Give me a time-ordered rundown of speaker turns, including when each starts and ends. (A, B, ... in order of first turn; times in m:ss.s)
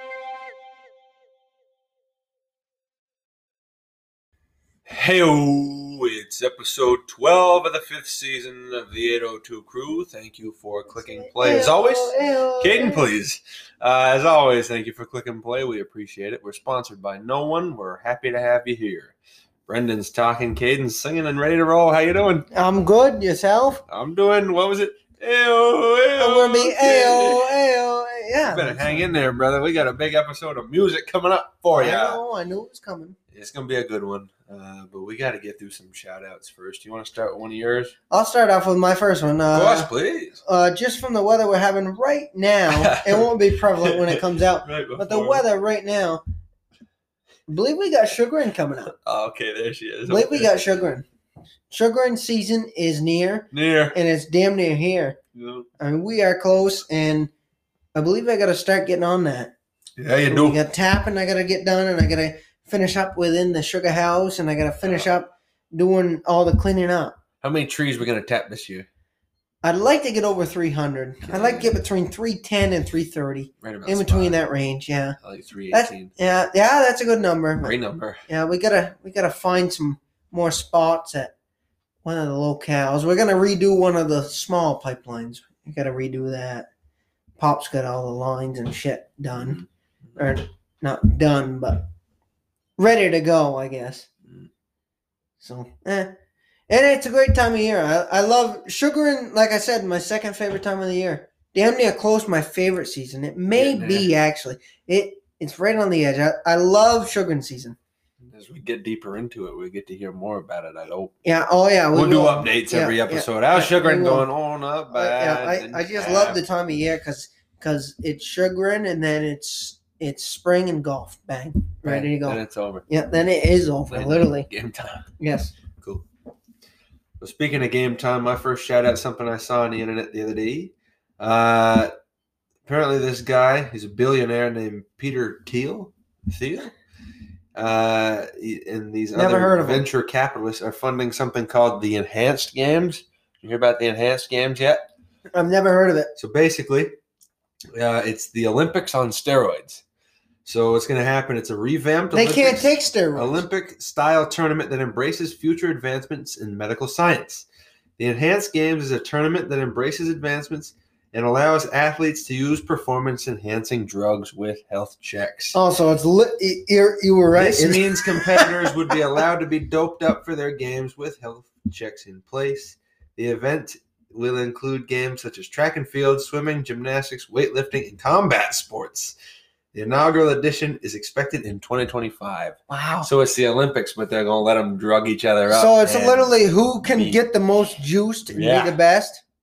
0:04.9-0:19.2 A
0:11.0-0:13.1 B
0:19.7-0:22.5 A
0:22.5-0:23.8 B
0:23.9-0:27.5 A
0:26.2-0:29.1 B
0:28.4-0:32.2 A
0:31.7-0:33.2 B
0:33.3-0:37.9 A
0:38.1-0:39.9 B
0:39.5-0:40.4 A
0:40.4-0:46.2 B
0:42.7-0:45.4 A
0:47.5-0:48.9 B
0:48.9-0:50.8 A
0:50.1-0:51.0 B
0:51.7-0:55.2 B
0:53.5-0:54.0 A
0:55.4-0:55.7 A
0:55.8-0:57.3 B
0:57.9-0:59.5 B
1:00.0-1:00.6 A
1:00.3-1:07.2 B
1:04.8-1:05.1 A
1:07.4-1:08.9 A
1:09.6-1:15.2 B
1:11.2-1:11.8 A
1:13.6-1:14.4 A
1:15.2-1:16.1 A
1:15.7-1:21.3 B
1:17.6-1:18.2 A
1:22.0-1:26.7 B
1:27.4-1:29.6 B
1:29.3-1:30.3 A
1:30.2-1:31.9 B
1:32.8-1:34.1 B
1:35.4-1:36.2 B
1:36.7-1:47.8 B
1:43.5-1:44.1 A
1:48.2-1:51.1 A
1:51.2-1:54.3 B
1:51.9-1:56.4 A
1:54.9-2:04.5 B
2:01.8-2:02.8 A
2:03.9-2:05.1 A
2:05.2-2:05.5 B
2:05.8-2:06.1 A
2:07.2-2:11.9 A
2:12.7-2:16.7 A
2:17.6-2:24.9 A
2:19.2-2:19.9 B
2:25.3-2:26.1 B
2:26.2-2:26.9 A
2:27.8-2:29.8 A
2:30.4-2:37.5 A
2:32.1-2:33.4 B
2:38.0-2:45.6 A
2:45.5-2:48.7 B
2:47.4-2:59.2 A
2:59.7-3:07.2 A
3:02.7-3:03.1 B
3:05.5-3:09.2 B
3:08.3-3:08.8 A